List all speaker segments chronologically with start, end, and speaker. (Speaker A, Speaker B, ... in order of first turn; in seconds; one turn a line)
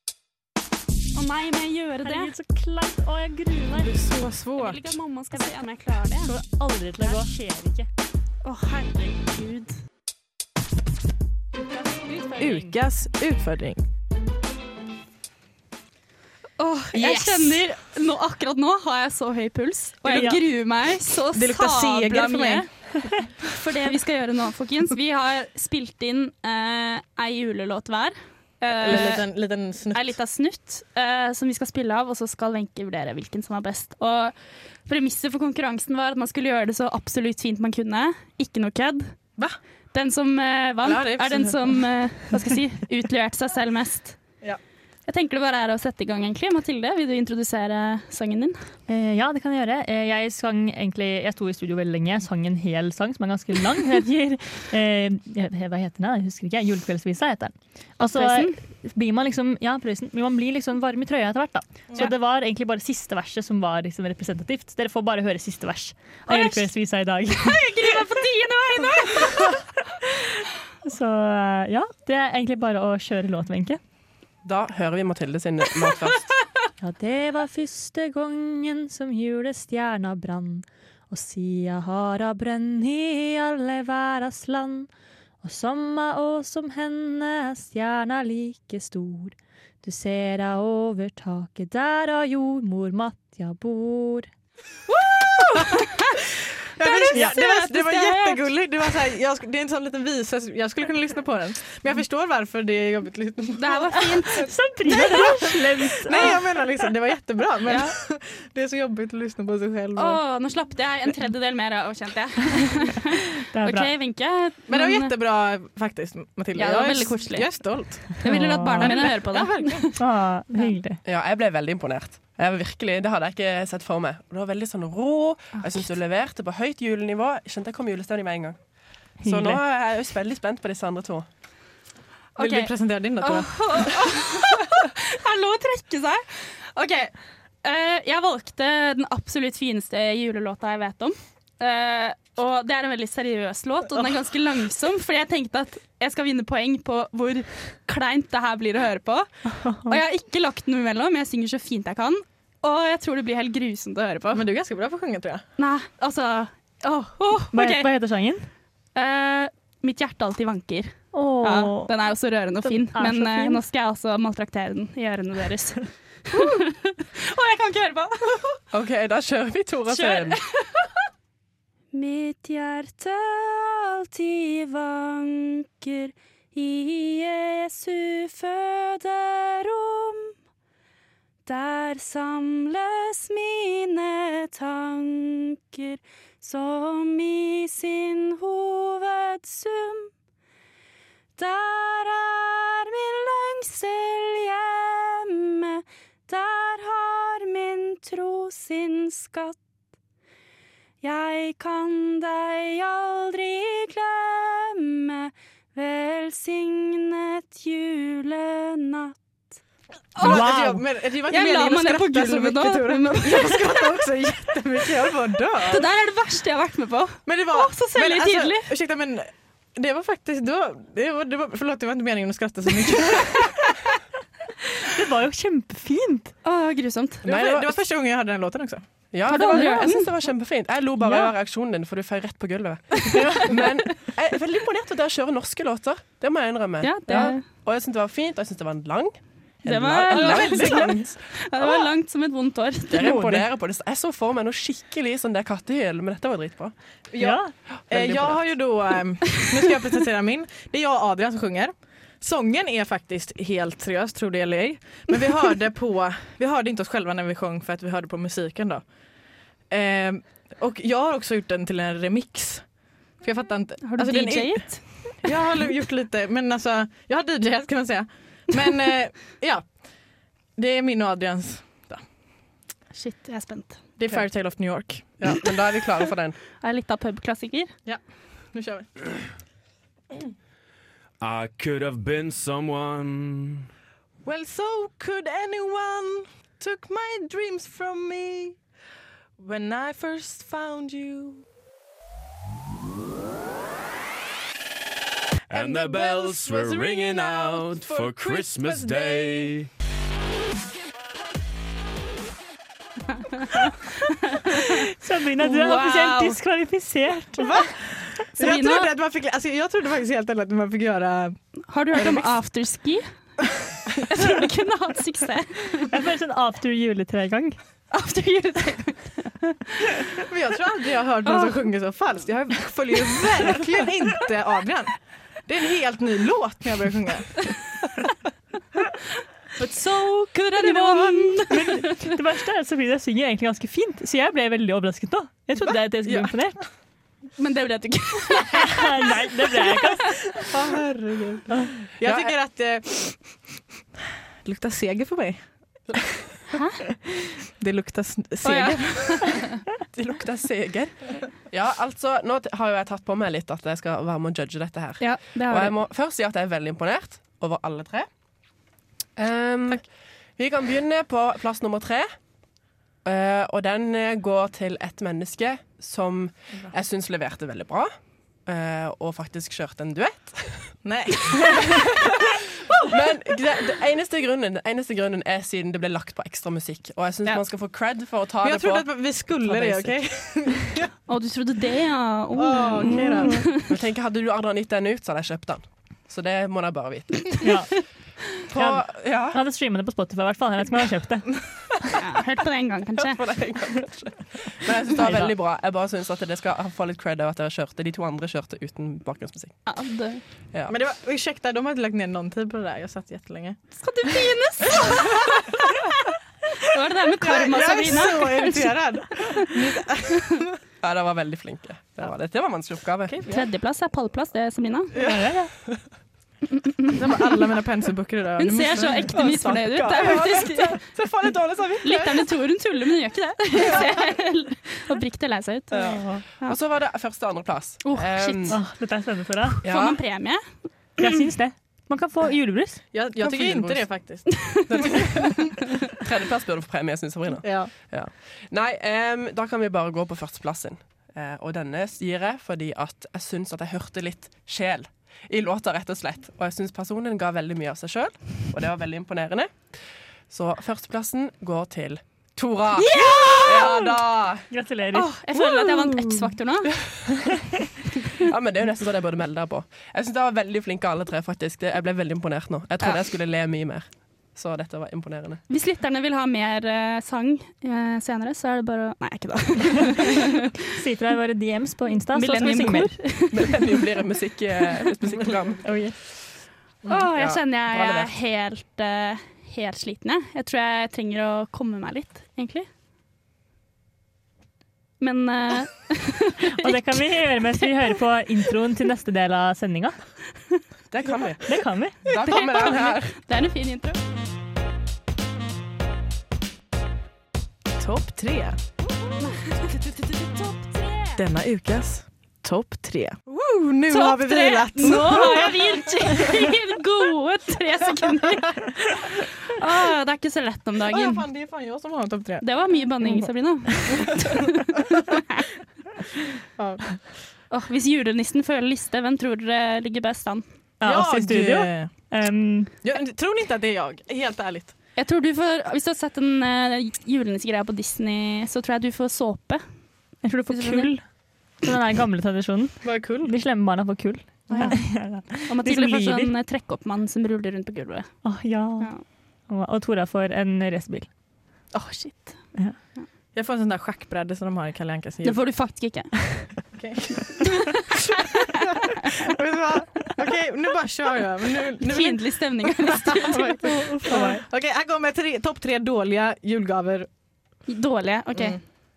Speaker A: 1.1-2.3
Speaker B: 2.0-4.0
Speaker C: 3.7-4.9
Speaker A: 4.6-6.3
Speaker B: 6.2-7.9
Speaker A: 8.4-9.8
Speaker B: 11.7-12.8
Speaker C: 12.4-13.8
Speaker A: 16.6-39.2
Speaker B: 16.9-17.6
Speaker B: 20.1-20.4
Speaker C: 21.3-22.7
Speaker C: 28.8-30.1
Speaker A: 39.9-44.2
Speaker C: 40.8-41.9
Speaker A: 45.1-48.6
Speaker B: 48.9-68.0
Speaker A: 58.0-58.6
Speaker A: 66.3-66.7
Speaker A: 67.4-69.6
Speaker B: 69.2-70.3
Speaker B: 70.8-73.8
Speaker D: 74.5-76.3
Speaker B: 76.8-84.9
Speaker B: 85.4-94.3
Speaker A: 94.9-96.0
Speaker C: 96.8-110.2
Speaker A: 96.8-98.5
Speaker B: 97.1-97.4
Speaker A: 103.6-104.6
Speaker B: 104.1-106.5
Speaker A: 106.1-106.3
Speaker A: 107.7-108.0
Speaker A: 110.0-115.2
Speaker B: 113.5-113.9
Speaker C: 114.7-119.9
Speaker A: 116.5-120.0
Speaker B: 118.2-119.2
Speaker B: 120.0-121.0
Speaker D: 121.0-128.6
Speaker A: 125.6-125.8
Speaker B: 129.2-129.6
Speaker D: 129.2-131.3
Speaker A: 132.4-149.3
Speaker C: 132.4-133.9
Speaker B: 149.5-150.0
Speaker A: 149.8-154.5
Speaker C: 154.3-155.4
Speaker A: 155.6-157.9
Speaker B: 157.5-158.5
Speaker A: 158.9-168.6
Speaker B: 161.1-161.9
Speaker B: 162.6-163.6
Speaker D: 168.7-170.4
Speaker A: 169.9-170.9
Speaker A: 171.9-180.3
Speaker A: 181.5-190.1
Speaker A: 191.4-199.6
Speaker A: 201.0-209.2
Speaker A: 210.2-210.6
Speaker C: 210.2-215.9
Speaker B: 210.2-210.8
Speaker A: 211.3-213.8
Speaker A: 215.7-218.7
Speaker C: 217.3-223.6
Speaker B: 224.9-226.3
Speaker A: 226.4-227.2
Speaker C: 227.2-228.9
Speaker D: 227.2-227.8
Speaker D: 229.1-241.2
Speaker A: 229.3-230.1
Speaker B: 229.3-229.9
Speaker B: 231.0-231.3
Speaker A: 236.8-237.4
Speaker A: 239.7-243.2
Speaker C: 240.1-241.1
Speaker D: 242.9-246.7
Speaker B: 243.0-243.5
Speaker C: 247.1-258.9
Speaker B: 247.2-247.5
Speaker D: 247.8-248.4
Speaker C: 259.7-269.8
Speaker A: 263.8-265.1
Speaker C: 270.6-272.0
Speaker A: 272.9-273.8
Speaker C: 274.0-275.1
Speaker D: 275.2-276.4
Speaker A: 276.6-277.7
Speaker C: 278.5-278.9
Speaker E: 281.2-283.5
Speaker C: 284.2-288.6
Speaker C: 289.4-291.4
Speaker E: 295.5-299.7
Speaker C: 295.5-299.5
Speaker A: 303.4-304.6
Speaker B: 304.9-307.7
Speaker A: 305.4-306.4
Speaker C: 307.4-311.4
Speaker A: 308.4-308.9
Speaker A: 311.7-313.0
Speaker C: 311.9-312.3
Speaker A: 314.1-315.9
Speaker B: 315.9-317.6
Speaker A: 317.9-319.3
Speaker C: 320.2-327.5
Speaker A: 321.2-321.6
Speaker A: 329.6-332.1
Speaker C: 330.6-331.4
Speaker B: 331.5-336.6
Speaker C: 335.6-336.6
Speaker A: 337.4-340.0
Speaker B: 338.7-340.3
Speaker C: 340.4-343.5
Speaker D: 342.0-342.3
Speaker C: 344.4-346.0
Speaker A: 346.5-346.8
Speaker C: 347.6-349.4
Speaker A: 348.4-349.5
Speaker D: 349.9-358.1
Speaker A: 355.0-355.7
Speaker D: 359.2-362.1
Speaker D: 363.0-367.9
Speaker D: 368.4-370.8
Speaker C: 370.8-372.1
Speaker D: 372.8-380.5
Speaker C: 378.4-380.9
Speaker A: 381.1-383.6
Speaker C: 382.4-383.5
Speaker B: 382.9-383.4
Speaker D: 383.6-387.5
Speaker B: 387.4-387.8
Speaker D: 388.4-389.4
Speaker B: 388.5-391.8
Speaker A: 392.0-393.2
Speaker D: 393.0-399.6
Speaker B: 395.0-395.4
Speaker A: 399.7-400.2
Speaker D: 400.5-400.8
Speaker C: 400.7-403.6
Speaker A: 403.8-405.6
Speaker A: 406.7-409.5
Speaker C: 407.2-410.6
Speaker D: 410.8-413.2
Speaker C: 413.1-413.5
Speaker A: 413.3-414.9
Speaker C: 414.9-415.2
Speaker B: 415.0-415.5
Speaker C: 416.9-419.2
Speaker A: 418.4-420.8
Speaker D: 419.1-422.2
Speaker A: 421.8-426.6
Speaker D: 425.7-428.6
Speaker B: 425.8-426.2
Speaker A: 427.9-428.6
Speaker B: 428.5-429.6
Speaker D: 429.6-430.0
Speaker A: 429.6-430.4
Speaker B: 431.0-432.8
Speaker C: 432.9-435.7
Speaker D: 433.2-433.9
Speaker D: 435.9-449.8
Speaker C: 437.4-437.7
Speaker D: 450.3-454.5
Speaker A: 452.8-453.9
Speaker B: 454.5-455.3
Speaker A: 454.9-456.7
Speaker D: 456.8-457.1
Speaker D: 458.1-465.4
Speaker A: 465.5-470.4
Speaker B: 470.7-473.0
Speaker A: 472.1-473.8
Speaker D: 473.2-475.8
Speaker B: 475.6-476.0
Speaker A: 476.9-482.7
Speaker D: 477.1-478.1
Speaker A: 485.0-487.3
Speaker B: 486.6-490.0
Speaker D: 490.9-493.1
Speaker B: 491.5-492.0
Speaker A: 492.2-494.0
Speaker C: 497.8-498.6
Speaker A: 499.2-501.2
Speaker C: 501.2-506.3
Speaker A: 503.9-508.8
Speaker C: 508.3-508.7
Speaker A: 509.5-511.3
Speaker C: 510.9-514.1
Speaker A: 512.4-514.6
Speaker C: 516.6-517.1
Speaker A: 517.5-520.4
Speaker B: 520.8-522.7
Speaker C: 520.8-521.9
Speaker C: 522.8-524.7
Speaker A: 525.0-529.6
Speaker B: 530.2-531.0
Speaker A: 530.5-530.9
Speaker B: 531.6-536.3
Speaker C: 532.8-533.4
Speaker C: 534.5-534.8
Speaker A: 534.5-538.2
Speaker B: 538.2-539.0
Speaker B: 539.5-541.1
Speaker A: 541.7-542.5
Speaker C: 543.3-545.4
Speaker A: 545.2-546.5
Speaker C: 546.7-547.8
Speaker C: 549.1-557.1
Speaker A: 551.8-553.6
Speaker B: 553.6-554.5
Speaker A: 557.7-558.6
Speaker C: 558.3-558.6